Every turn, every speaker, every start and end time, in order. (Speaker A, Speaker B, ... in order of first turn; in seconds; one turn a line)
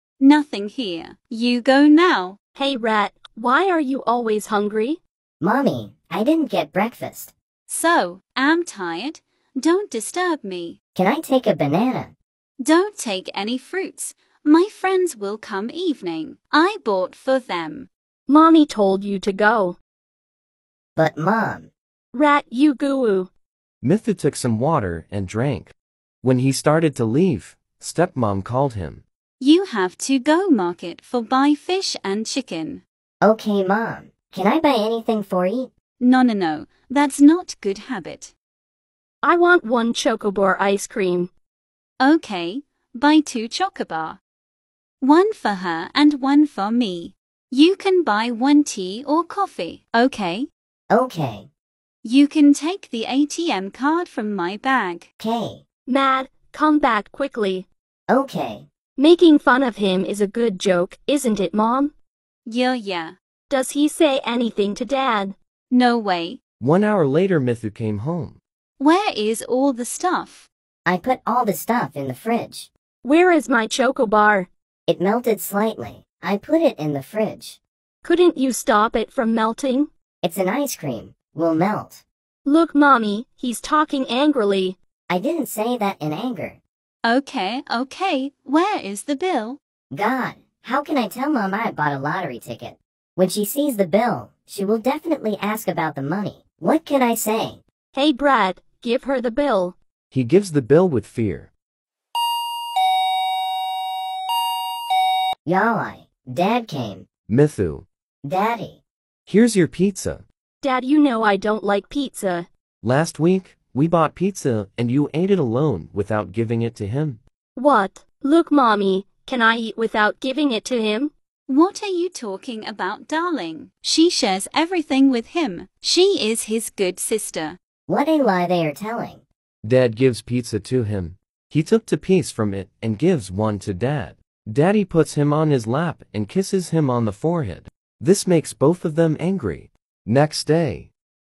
Speaker A: 0.2-2.4
Speaker B: 2.5-5.0
Speaker C: 5.4-7.3
Speaker A: 7.7-10.8
Speaker C: 10.9-12.2
Speaker A: 12.6-17.9
Speaker B: 18.3-19.8
Speaker C: 21.0-21.7
Speaker B: 22.1-23.3
Speaker D: 23.8-29.0
Speaker A: 29.4-32.8
Speaker C: 33.2-35.7
Speaker A: 36.0-38.3
Speaker B: 39.2-41.3
Speaker A: 42.0-44.2
Speaker A: 45.0-50.5
Speaker C: 50.9-51.5
Speaker A: 52.0-55.1
Speaker C: 55.2-55.6
Speaker B: 55.9-57.7
Speaker C: 58.1-58.7
Speaker B: 59.0-61.9
Speaker A: 62.5-63.1
Speaker B: 63.5-65.3
Speaker A: 65.7-66.4
Speaker D: 66.6-68.4
Speaker A: 68.8-70.5
Speaker C: 70.9-72.7
Speaker B: 73.0-74.5
Speaker C: 74.9-77.6
Speaker B: 78.0-79.9
Speaker C: 80.2-82.0
Speaker B: 82.5-84.8
Speaker C: 85.1-86.6
Speaker A: 87.0-89.6
Speaker C: 89.9-97.6
Speaker B: 97.9-99.8
Speaker D: 100.1-101.5
Speaker C: 105.5-107.0
Speaker D: 107.3-107.9
Speaker C: 108.2-108.8
Speaker D: 109.3-110.2
Speaker B: 110.6-112.5
Speaker D: 112.8-117.2
Speaker B: 117.6-121.1
Speaker A: 121.5-127.6
Speaker C: 127.9-129.2
Speaker D: 129.6-140.9